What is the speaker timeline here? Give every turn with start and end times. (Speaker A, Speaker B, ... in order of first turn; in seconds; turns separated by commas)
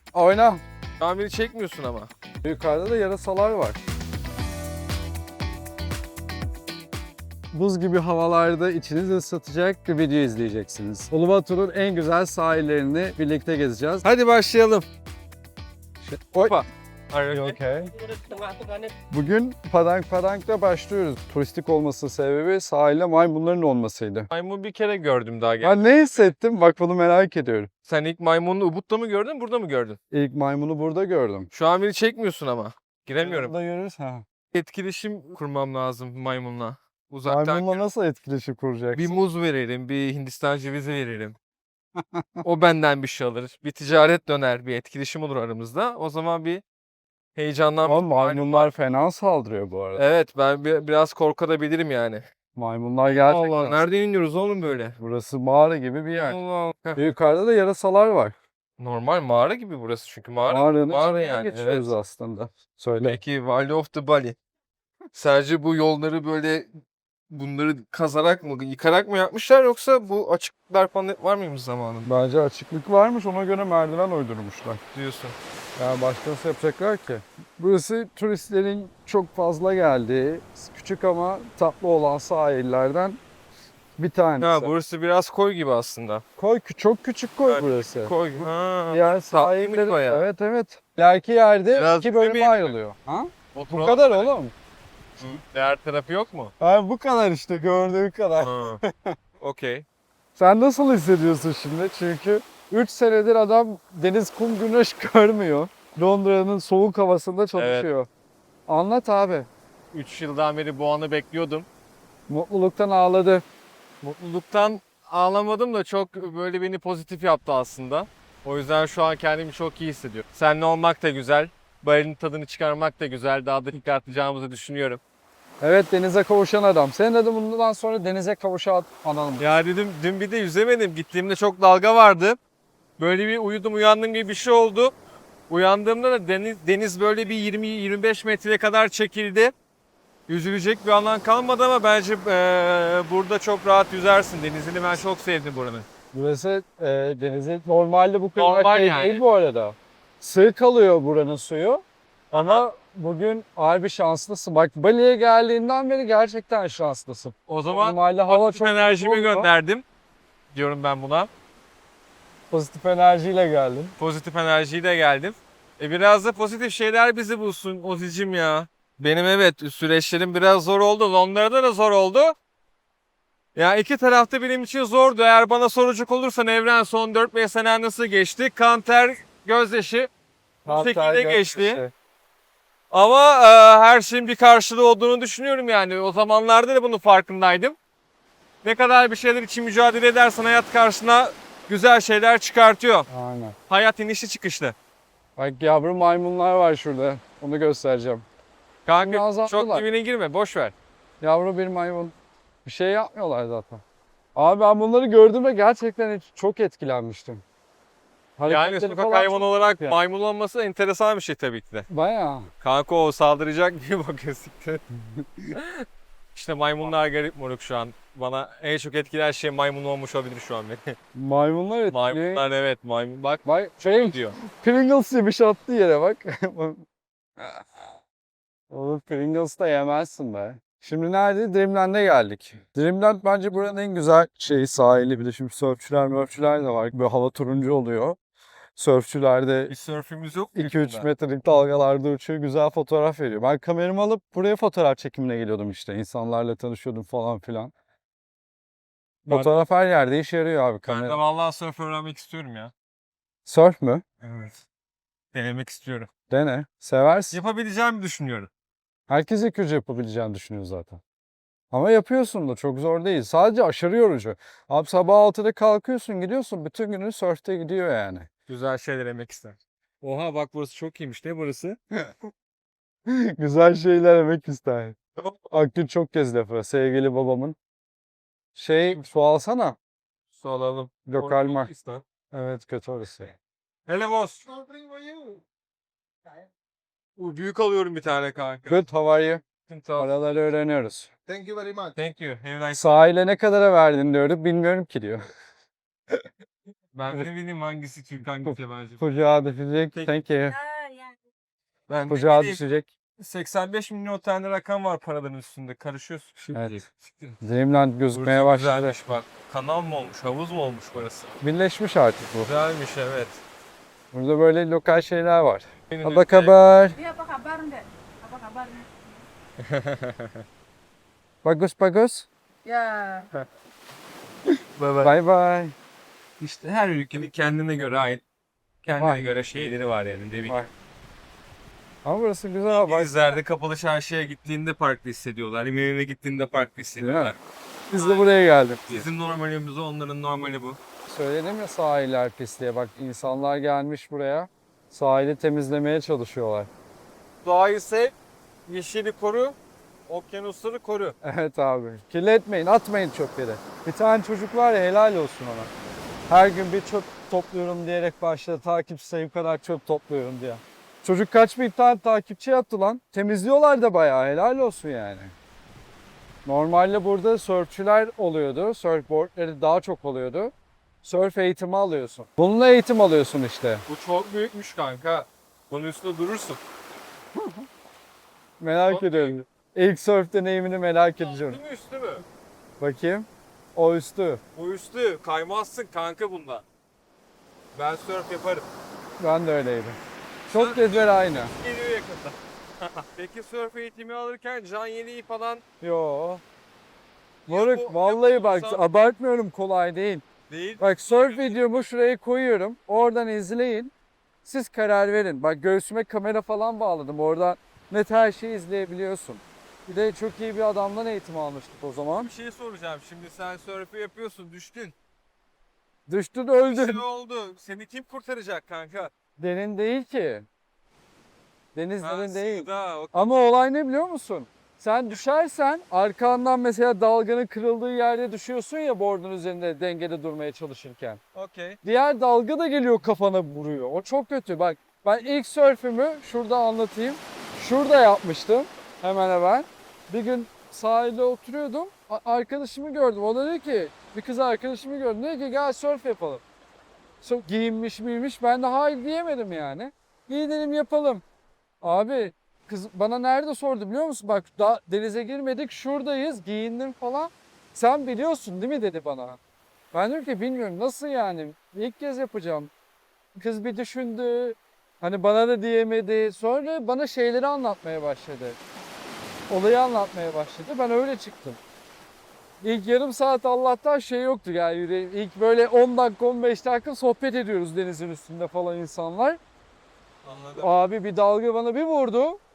Speaker A: 0.1-0.6, Speaker B: 1.0-2.1, Speaker A: 2.4-3.8, Speaker A: 7.5-14.1, Speaker B: 14.0-14.9, Speaker A: 16.0-16.7, Speaker B: 17.1-17.6, Speaker A: 17.3-17.9, Speaker A: 19.1-24.3, Speaker B: 24.3-25.8, Speaker A: 25.6-27.7, Speaker B: 27.9-30.0, Speaker A: 30.1-31.5, Speaker B: 31.5-33.5, Speaker A: 33.2-34.2, Speaker B: 34.5-37.8, Speaker A: 37.3-39.1, Speaker B: 38.9-41.4, Speaker A: 42.0-42.5, Speaker B: 42.4-46.6, Speaker B: 47.4-48.7, Speaker A: 47.9-50.0, Speaker B: 50.0-52.2, Speaker A: 52.5-53.9, Speaker B: 53.1-55.0, Speaker A: 55.0-56.4, Speaker B: 56.2-57.0, Speaker A: 57.0-58.3, Speaker B: 58.8-61.9, Speaker A: 60.5-63.2, Speaker B: 63.0-64.4, Speaker B: 65.1-66.7, Speaker B: 67.3-72.1, Speaker A: 72.0-74.8, Speaker B: 74.9-75.4, Speaker A: 75.8-83.2, Speaker A: 84.0-84.7, Speaker B: 84.4-86.2, Speaker A: 86.4-94.5, Speaker B: 87.5-90.2, Speaker B: 91.7-92.8, Speaker B: 93.5-94.3, Speaker B: 95.2-96.5, Speaker A: 96.6-99.2, Speaker B: 98.4-98.8, Speaker B: 99.4-99.8, Speaker A: 100.4-108.1, Speaker B: 107.6-107.9, Speaker A: 108.7-109.5, Speaker B: 109.9-111.7, Speaker A: 112.3-113.4, Speaker B: 114.0-125.0, Speaker A: 125.6-129.4, Speaker B: 129.4-132.4, Speaker B: 133.0-134.9, Speaker B: 135.5-139.5, Speaker B: 140.3-145.9, Speaker A: 146.1-159.5, Speaker B: 148.4-149.2, Speaker B: 152.3-152.6, Speaker B: 157.5-159.8, Speaker B: 160.5-161.3, Speaker A: 162.5-163.9, Speaker B: 164.0-172.4, Speaker B: 173.6-180.1, Speaker A: 180.7-181.9, Speaker B: 180.7-181.8, Speaker B: 182.9-187.8, Speaker B: 188.6-193.1, Speaker A: 193.1-193.6, Speaker B: 193.7-194.8, Speaker A: 195.4-198.2, Speaker B: 198.9-200.8, Speaker A: 199.0-199.9, Speaker A: 201.2-203.8, Speaker A: 204.4-207.4, Speaker A: 208.4-210.0, Speaker B: 208.5-211.9, Speaker A: 211.9-212.5, Speaker B: 212.6-214.8, Speaker A: 215.0-215.6, Speaker B: 215.5-220.9, Speaker A: 221.2-222.4, Speaker B: 221.9-223.4, Speaker A: 223.4-226.8, Speaker B: 224.0-224.3, Speaker A: 227.4-227.7, Speaker A: 228.7-238.2, Speaker A: 238.8-239.7, Speaker B: 239.7-241.1, Speaker A: 240.6-247.7, Speaker A: 249.3-251.2, Speaker B: 249.3-249.5, Speaker B: 250.9-252.7, Speaker A: 253.5-254.0, Speaker B: 254.2-254.6, Speaker B: 255.3-256.1, Speaker A: 256.3-257.4, Speaker B: 257.3-258.5, Speaker A: 259.1-261.0, Speaker A: 261.7-268.3, Speaker B: 268.5-271.8, Speaker A: 273.1-275.0, Speaker A: 275.5-277.6, Speaker A: 278.6-279.8, Speaker B: 280.3-282.0, Speaker A: 281.1-281.7, Speaker A: 282.3-283.3, Speaker B: 283.9-285.3, Speaker B: 287.2-288.8, Speaker A: 288.7-289.4, Speaker B: 289.7-290.1, Speaker A: 290.0-291.1, Speaker B: 291.3-292.9, Speaker A: 292.7-295.2, Speaker B: 296.9-299.1, Speaker A: 298.4-300.6, Speaker B: 301.9-302.7, Speaker A: 302.1-302.9, Speaker B: 303.2-307.4, Speaker A: 307.4-309.0, Speaker B: 308.1-311.4, Speaker A: 311.4-312.5, Speaker B: 312.4-313.4, Speaker A: 314.1-317.0, Speaker B: 315.9-316.6, Speaker C: 317.2-318.9, Speaker B: 319.6-320.4, Speaker A: 321.4-322.3, Speaker C: 322.7-323.0, Speaker B: 324.8-325.1, Speaker A: 325.0-325.8, Speaker B: 326.4-328.2, Speaker B: 328.8-330.6, Speaker A: 329.0-329.3, Speaker A: 332.1-333.4, Speaker B: 332.7-337.4, Speaker A: 337.0-337.4, Speaker A: 337.9-339.1, Speaker B: 337.9-338.3, Speaker B: 338.9-340.8, Speaker A: 341.1-346.7, Speaker B: 347.4-348.1, Speaker B: 348.7-351.1, Speaker A: 351.2-355.7, Speaker A: 356.3-365.3, Speaker A: 366.4-370.5, Speaker A: 371.0-373.9, Speaker B: 373.9-376.6, Speaker A: 377.4-377.7, Speaker A: 378.6-381.6, Speaker B: 378.9-379.4, Speaker B: 381.2-382.2, Speaker A: 382.8-384.4, Speaker B: 384.6-386.6, Speaker B: 387.7-388.7, Speaker A: 389.2-390.0, Speaker B: 390.5-395.6, Speaker A: 390.5-391.5, Speaker A: 395.8-396.4, Speaker B: 397.5-398.9, Speaker A: 397.5-400.2, Speaker B: 400.5-401.9, Speaker A: 400.8-403.9, Speaker A: 404.4-412.3, Speaker B: 412.2-414.9, Speaker A: 416.1-417.0, Speaker B: 416.6-419.1, Speaker A: 419.4-420.5, Speaker A: 421.8-431.2, Speaker B: 422.0-423.2, Speaker B: 431.4-431.8, Speaker A: 431.8-446.4, Speaker A: 447.2-451.2, Speaker A: 451.8-459.4, Speaker A: 459.9-462.7, Speaker A: 463.4-468.6, Speaker A: 469.5-471.6, Speaker A: 472.6-479.4, Speaker B: 480.2-480.7, Speaker A: 480.6-482.4